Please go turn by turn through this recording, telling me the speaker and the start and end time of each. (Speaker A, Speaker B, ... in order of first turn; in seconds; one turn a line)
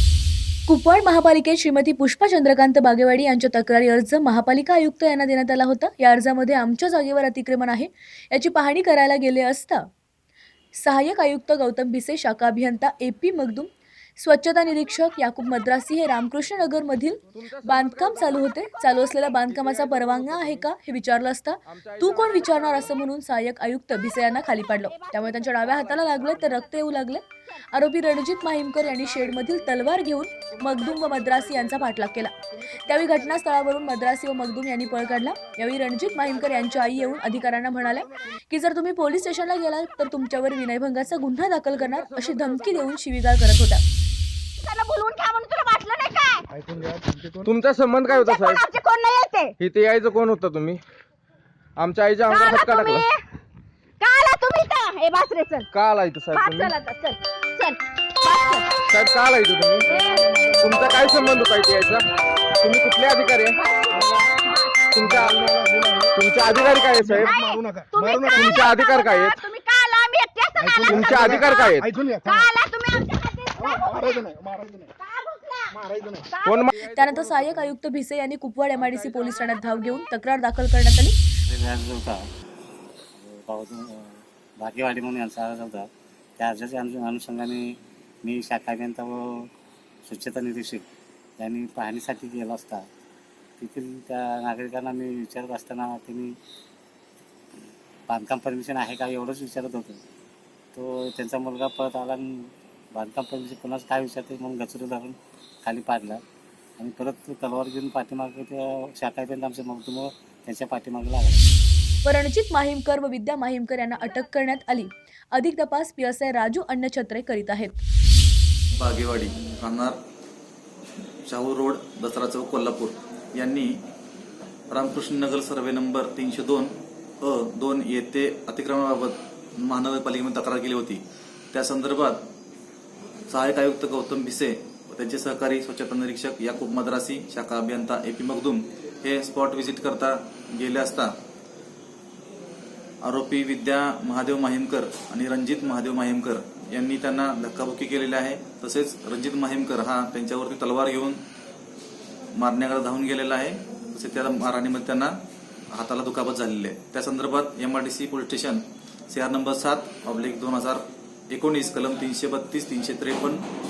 Speaker A: 0.7-9.9
Speaker A: 10.8-43.8
Speaker B: 17.4-18.4
Speaker B: 19.5-20.6
Speaker B: 21.7-22.8
Speaker C: 24.9-26.0
Speaker C: 44.6-46.4
Speaker D: 46.6-47.5
Speaker B: 47.5-48.6
Speaker C: 48.0-49.5
Speaker B: 49.6-50.8
Speaker B: 51.8-53.1
Speaker C: 52.3-53.2
Speaker C: 54.0-55.7
Speaker B: 55.7-56.7
Speaker C: 56.3-58.7
Speaker B: 58.9-59.9
Speaker C: 59.9-60.5
Speaker D: 60.3-60.8
Speaker B: 60.6-62.1
Speaker B: 62.6-63.6
Speaker C: 63.5-64.8
Speaker B: 64.9-65.5
Speaker D: 65.0-66.2
Speaker B: 66.2-67.3
Speaker D: 67.0-68.4
Speaker C: 67.2-71.7
Speaker B: 68.3-69.4
Speaker D: 70.7-72.5
Speaker B: 70.8-71.9
Speaker C: 72.2-74.2
Speaker D: 73.7-74.9
Speaker C: 75.0-75.8
Speaker D: 75.8-76.2
Speaker C: 76.3-76.7
Speaker B: 76.5-77.5
Speaker A: 76.8-81.2
Speaker E: 81.5-82.2
Speaker E: 83.2-85.9
Speaker E: 86.4-89.5
Speaker E: 90.1-90.9
Speaker E: 91.4-92.9
Speaker E: 93.6-96.4
Speaker E: 98.1-100.0
Speaker E: 100.8-106.2
Speaker E: 106.8-111.5
Speaker A: 112.0-117.8
Speaker F: 118.8-120.0
Speaker F: 121.3-123.8
Speaker F: 124.7-132.3
Speaker F: 133.3-141.1
Speaker F: 143.0-151.2
Speaker F: 152.3-155.2
Speaker F: 155.7-163.5